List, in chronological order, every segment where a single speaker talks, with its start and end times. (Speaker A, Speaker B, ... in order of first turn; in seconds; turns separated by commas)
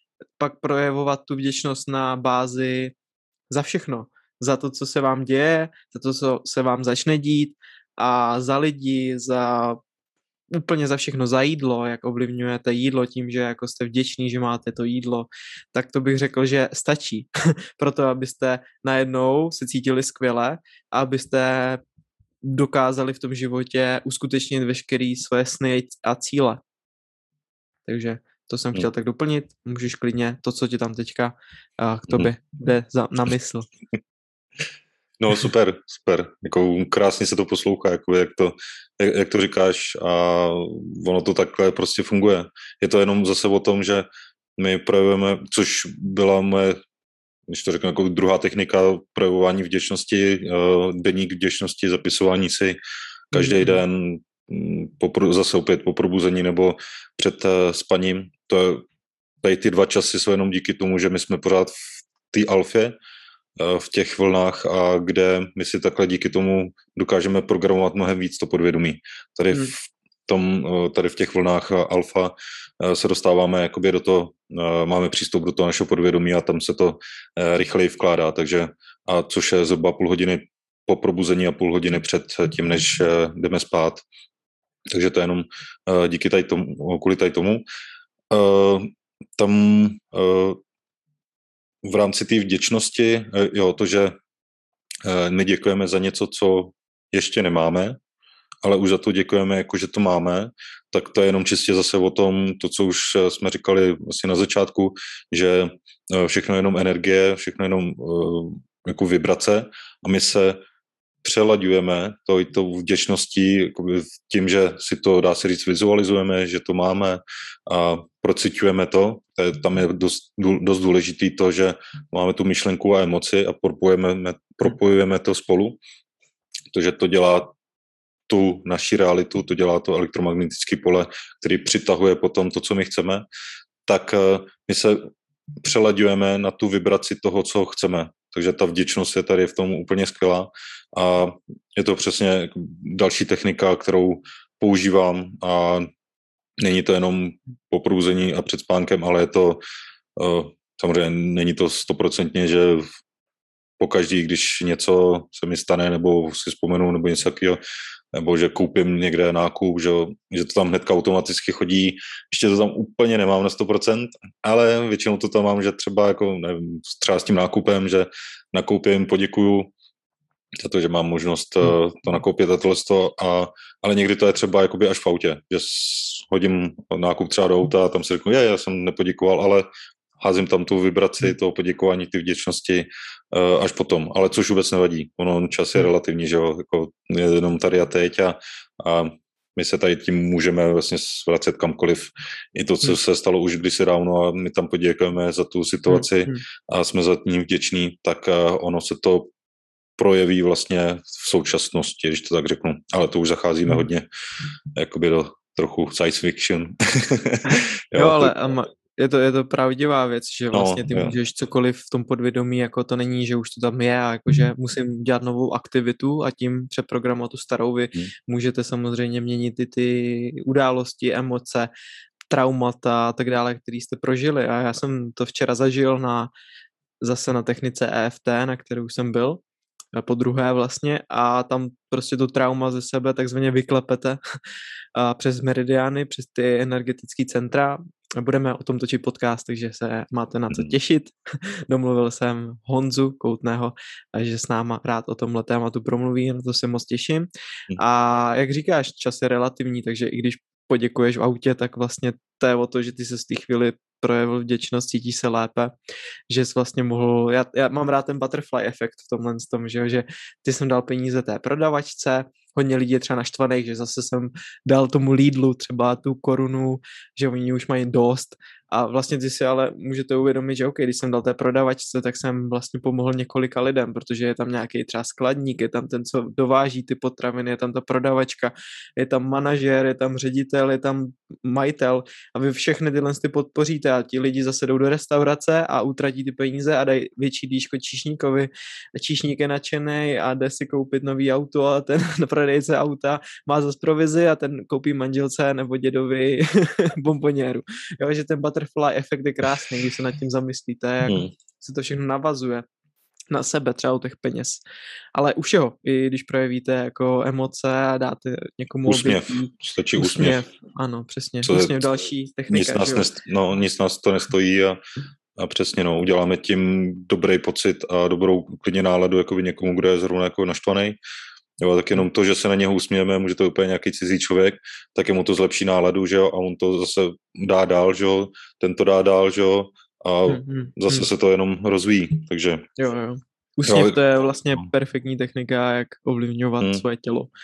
Speaker A: 0.4-2.9, Speaker A: 3.5-9.8, Speaker A: 10.5-21.8, Speaker A: 22.4-26.6, Speaker A: 27.9-33.7, Speaker B: 35.2-46.8, Speaker B: 47.5-52.8, Speaker A: 53.3-53.8, Speaker B: 53.3-58.8, Speaker B: 59.4-63.0, Speaker B: 63.6-84.0, Speaker B: 84.9-87.6, Speaker B: 88.3-90.6, Speaker B: 91.8-94.2, Speaker B: 95.0-98.0, Speaker B: 98.6-110.6, Speaker B: 111.2-125.8, Speaker B: 126.7-127.5, Speaker B: 128.3-133.2, Speaker B: 133.9-135.1, Speaker B: 135.6-145.9, Speaker B: 146.6-149.6, Speaker B: 150.2-152.9, Speaker B: 153.8-157.6, Speaker B: 158.1-169.7, Speaker B: 170.6-179.7, Speaker B: 180.2-199.3, Speaker A: 195.9-196.4, Speaker B: 200.0-204.1, Speaker B: 204.8-208.3, Speaker A: 207.5-221.7, Speaker B: 210.5-211.2, Speaker A: 222.3-226.3, Speaker A: 227.0-229.4, Speaker A: 229.9-234.2, Speaker A: 235.0-255.7, Speaker A: 256.3-302.6, Speaker B: 301.1-301.3, Speaker A: 303.3-304.6, Speaker A: 305.1-313.1, Speaker B: 308.9-310.4, Speaker B: 311.4-311.9, Speaker B: 312.5-314.8, Speaker B: 315.4-321.0, Speaker B: 321.6-332.7, Speaker A: 330.3-331.1, Speaker A: 332.8-337.3, Speaker B: 333.7-334.0